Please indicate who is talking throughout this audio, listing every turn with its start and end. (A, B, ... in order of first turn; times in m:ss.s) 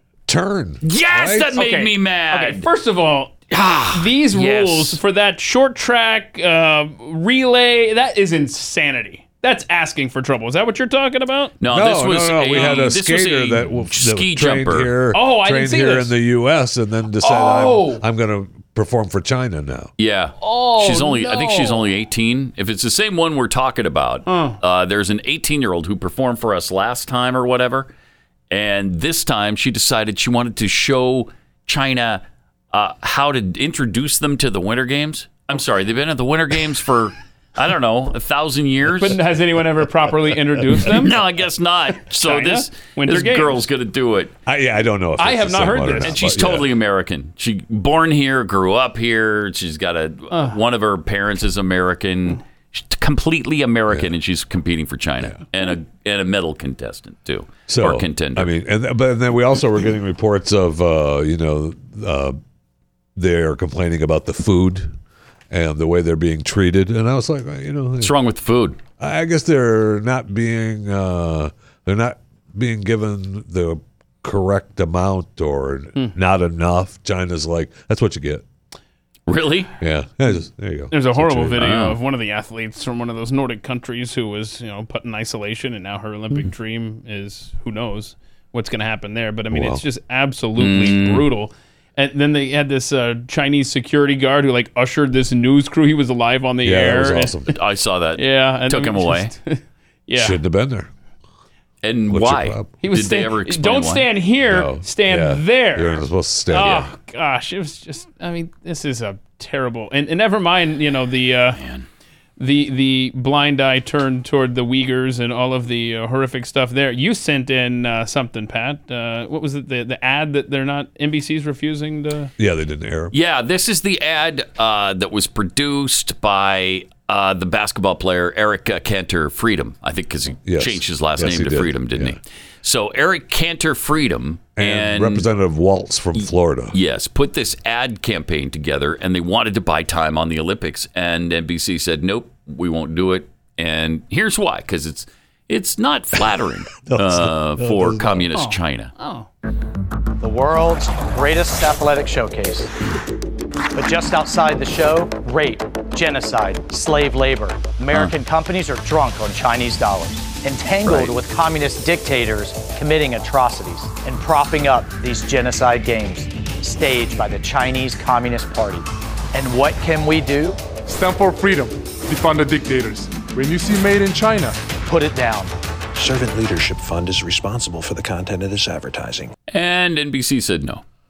0:00.3-0:01.6 A
0:00.8-0:02.7 B
0:01.6-0:03.4 C
0:03.5-0:05.0 B
0:03.9-0:11.6 C
0:11.6-0:15.0 B
0:11.7-0:19.9 A
0:12.5-0:12.9 C
0:15.1-0:16.1 C
0:17.2-0:18.0 C
0:20.0-0:27.9 B
0:20.4-0:21.9 C
0:24.3-0:24.6 C
0:28.5-0:39.2 B
0:39.0-0:41.2 C
0:40.8-0:44.3 B
0:42.2-0:43.6 C
0:44.5-0:46.7 A
0:45.2-0:46.2 C
0:46.0-0:58.5 B
0:50.3-0:50.6 C
0:57.7-1:02.4 A
1:03.2-1:05.0 A
1:05.5-1:08.1 A
1:08.0-1:08.8 B
1:09.0-1:18.4 A
1:19.3-1:19.7 B
1:19.8-1:21.7 A
1:20.9-1:37.3 C
1:21.6-1:22.0 B
1:29.5-1:29.8 A
1:30.6-1:31.3 B
1:36.6-1:37.5 A
1:37.5-1:39.3 B
1:38.2-1:40.4 C
1:40.2-1:40.9 A
1:41.8-1:44.1 B
1:42.1-1:42.7 A
1:42.8-1:51.6 C
1:44.5-1:46.9 A
1:51.6-1:51.9 B
1:52.4-2:02.3 C
2:02.4-2:03.1 A
2:03.1-2:15.3 B
2:10.5-2:12.2 A
2:14.6-2:16.8 A
2:16.2-2:28.9 B
2:26.8-2:28.2 A
2:28.3-2:29.3 C
2:30.2-2:32.7 D
2:33.7-2:50.6 D
2:40.8-2:41.2 B
2:50.9-2:54.6 E
2:54.8-2:55.6 D
2:56.0-2:59.3 F
2:59.5-3:00.8 B